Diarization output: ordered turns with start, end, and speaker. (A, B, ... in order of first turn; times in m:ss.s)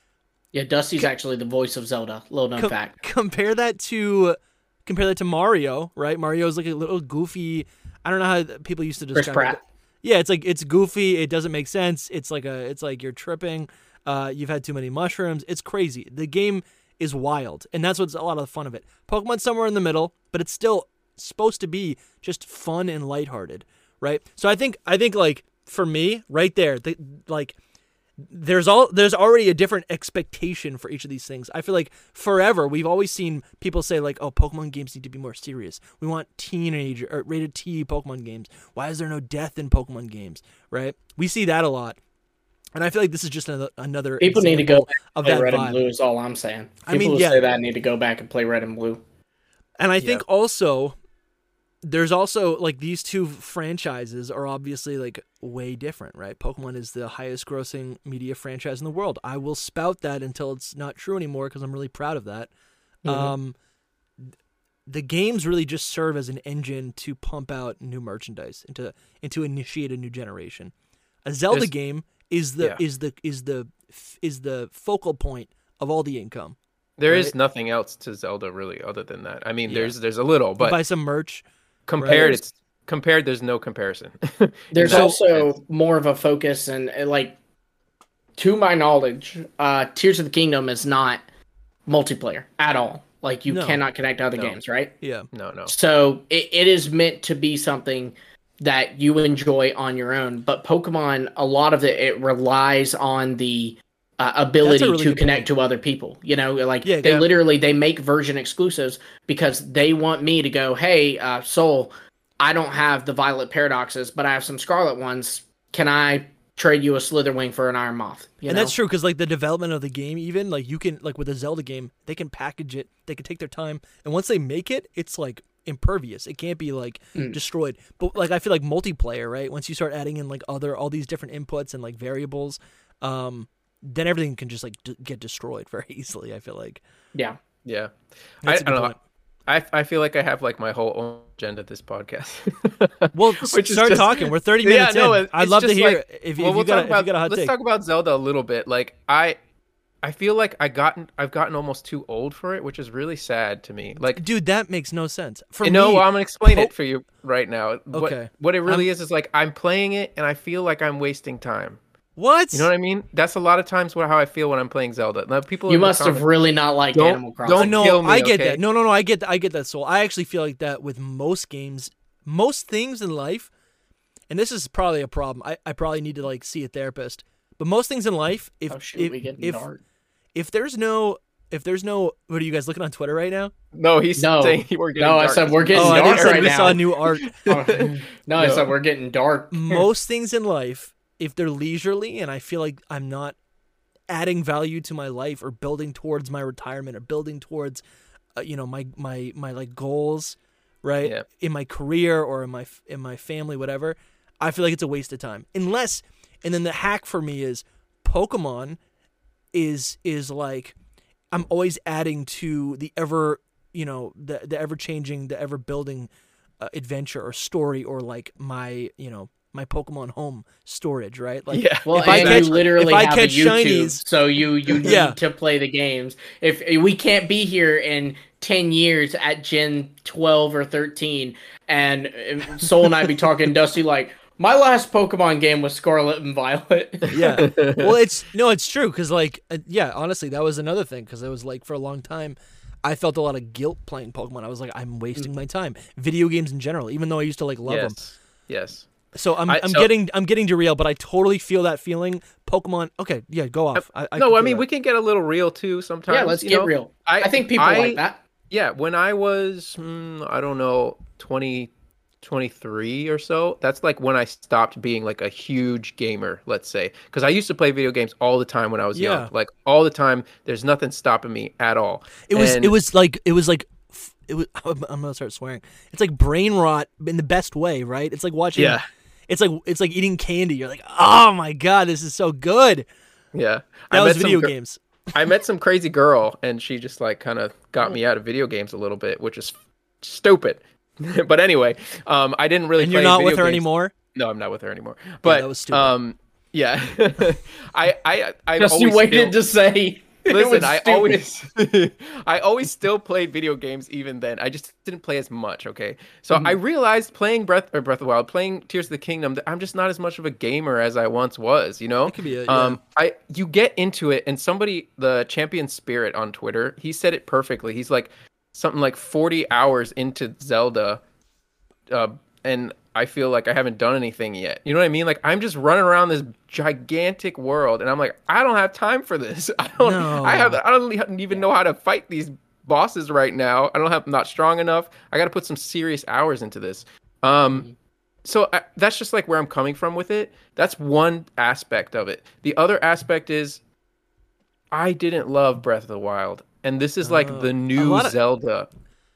0:00.5-0:03.0 A
0:02.6-0:27.6 B
0:09.1-0:09.6 A
0:28.2-0:42.0 B
0:42.8-0:45.8 B
0:44.2-0:49.0 A
0:46.9-0:47.4 B
0:49.8-0:51.0 B
0:51.8-1:02.5 B
1:03.0-1:03.3 A
1:03.1-1:03.6 B
1:04.9-1:10.7 B
1:11.2-1:17.3 B
1:17.0-1:20.8 C
1:19.7-1:19.9 B
1:20.6-1:21.4 B
1:21.9-1:25.6 C
1:22.0-1:22.3 B
1:22.1-1:22.4 A
1:24.7-1:27.4 A
1:24.8-1:25.2 B
1:28.4-1:31.2 A
1:31.9-1:34.9 A
1:33.5-1:33.8 B
1:35.0-1:35.3 B
1:35.3-1:35.7 C
1:35.6-1:58.7 A
1:44.6-1:45.4 B
1:46.8-1:47.3 B
1:58.4-2:16.8 B
2:17.6-2:18.9 C
2:18.4-2:19.0 B
2:19.4-2:29.4 C
2:23.1-2:27.5 B
2:30.0-2:34.2 C
2:34.1-2:36.7 B
2:35.6-2:41.8 C
2:37.9-2:38.9 B
2:42.2-2:42.7 B
2:42.5-2:46.3 C
2:45.7-2:47.7 A
2:46.9-2:48.6 C
2:47.6-2:53.5 B
2:54.3-2:59.6 B
2:58.7-2:59.8 A
3:00.4-3:03.5 B
3:03.7-3:08.7 C
3:04.2-3:09.8 A
3:05.7-3:07.3 B
3:09.5-3:13.4 B
3:14.1-3:17.8 B
3:18.4-3:28.8 B
3:29.5-3:30.7 B
3:31.3-3:44.0 B
3:41.5-3:42.9 C
3:41.9-3:57.4 A
3:44.8-3:45.2 B
3:57.1-4:08.0 B
3:57.4-3:57.9 C
4:07.6-4:08.9 C
4:09.1-4:14.6 B
4:09.4-4:09.9 C
4:13.7-4:21.7 C
4:16.1-4:18.2 A
4:22.2-4:32.8 C
4:28.9-4:29.3 B
4:32.3-4:42.9 B
4:38.6-4:38.8 C
4:43.3-4:44.5 C
4:43.9-4:44.8 B
4:45.1-4:59.4 C
4:52.8-4:53.9 B
4:55.2-4:56.0 B
4:58.6-5:01.2 A
5:00.3-5:21.0 C
5:12.0-5:12.8 B
5:21.9-5:37.7 C
5:29.8-5:30.6 B
5:38.2-5:43.6 C
5:44.7-5:48.7 C
5:47.0-5:48.2 B